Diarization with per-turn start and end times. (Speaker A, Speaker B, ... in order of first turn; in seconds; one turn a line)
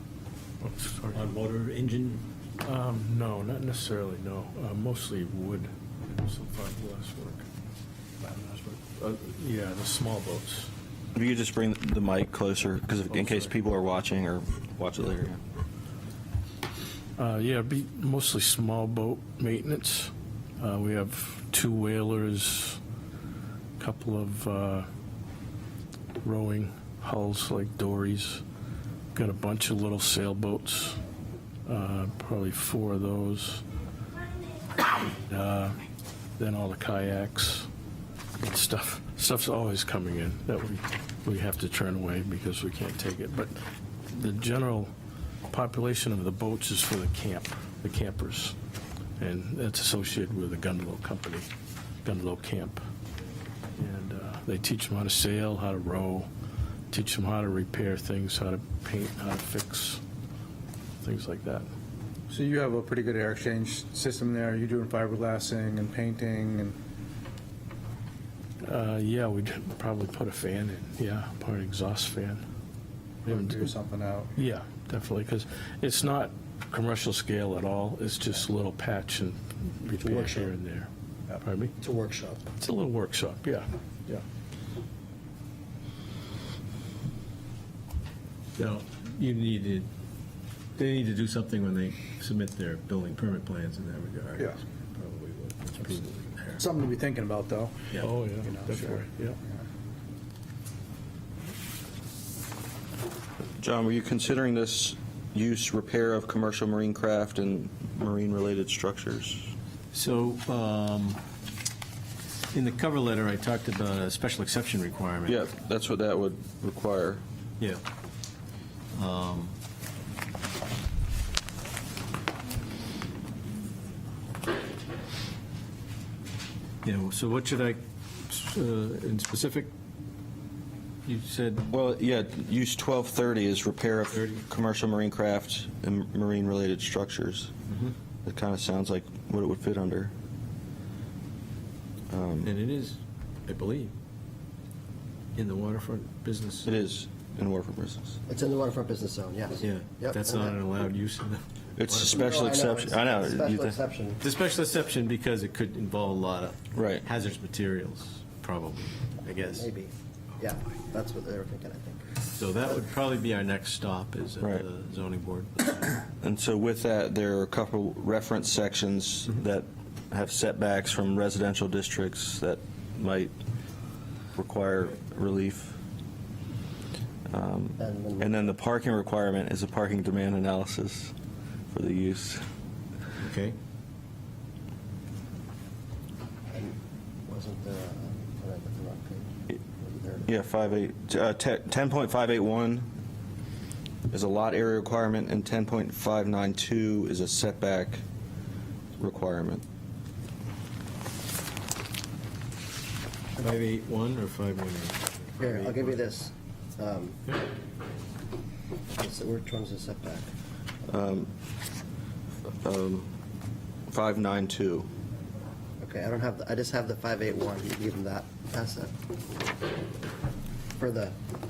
Speaker A: 0.6-1.4
Speaker B: 1.1-2.2
Speaker A: 2.6-7.5
Speaker B: 8.2-8.6
Speaker A: 8.8-10.7
Speaker C: 11.1-15.4
Speaker A: 13.1-13.4
Speaker A: 17.2-22.8
Speaker A: 23.8-24.9
Speaker A: 26.2-28.4
Speaker A: 29.1-31.0
Speaker A: 31.6-33.6
Speaker A: 35.1-35.8
Speaker A: 36.4-37.7
Speaker A: 38.4-43.5
Speaker A: 44.1-44.9
Speaker A: 45.5-48.5
Speaker A: 49.2-51.5
Speaker A: 52.0-52.8
Speaker A: 53.8-56.3
Speaker A: 56.9-60.0
Speaker A: 61.0-61.6
Speaker D: 62.3-66.8
Speaker A: 68.6-72.4
Speaker D: 73.2-74.3
Speaker A: 73.3-73.7
Speaker A: 74.3-80.9
Speaker B: 80.0-80.5
Speaker A: 81.4-81.7
Speaker B: 81.8-82.4
Speaker A: 82.6-84.2
Speaker E: 88.6-89.9
Speaker E: 90.8-96.6
Speaker D: 96.6-99.1
Speaker A: 98.0-99.4
Speaker C: 103.6-109.5
Speaker E: 109.9-111.2
Speaker E: 112.5-115.4
Speaker C: 115.2-117.2
Speaker E: 118.9-119.5
Speaker E: 126.8-129.7
Speaker E: 131.0-131.7
Speaker C: 131.7-137.5
Speaker E: 134.1-134.4
Speaker E: 137.7-137.9
Speaker C: 138.2-140.1
Speaker C: 142.1-142.5
Speaker E: 142.4-143.9
Speaker E: 145.3-146.7
Speaker C: 146.6-148.2
Speaker F: 148.3-150.6
Speaker E: 149.6-152.2
Speaker C: 151.8-153.8
Speaker F: 151.9-154.2
Speaker E: 154.2-159.7
Speaker C: 156.7-157.0
Speaker F: 159.4-162.2
Speaker E: 162.4-165.8
Speaker C: 164.4-164.7
Speaker C: 166.2-173.3
Speaker C: 174.3-175.8
Speaker C: 177.3-181.1
Speaker F: 177.8-178.3
Speaker C: 181.7-182.4
Speaker E: 183.2-183.6
Speaker F: 187.3-190.2
Speaker C: 190.2-192.9
Speaker C: 194.1-198.0
Speaker C: 199.0-199.6
Speaker E: 203.4-206.1
Speaker F: 205.4-207.2
Speaker F: 209.0-210.3
Speaker C: 210.9-211.3
Speaker C: 212.6-213.1
Speaker C: 213.9-214.9
Speaker F: 215.8-218.9
Speaker F: 220.8-221.2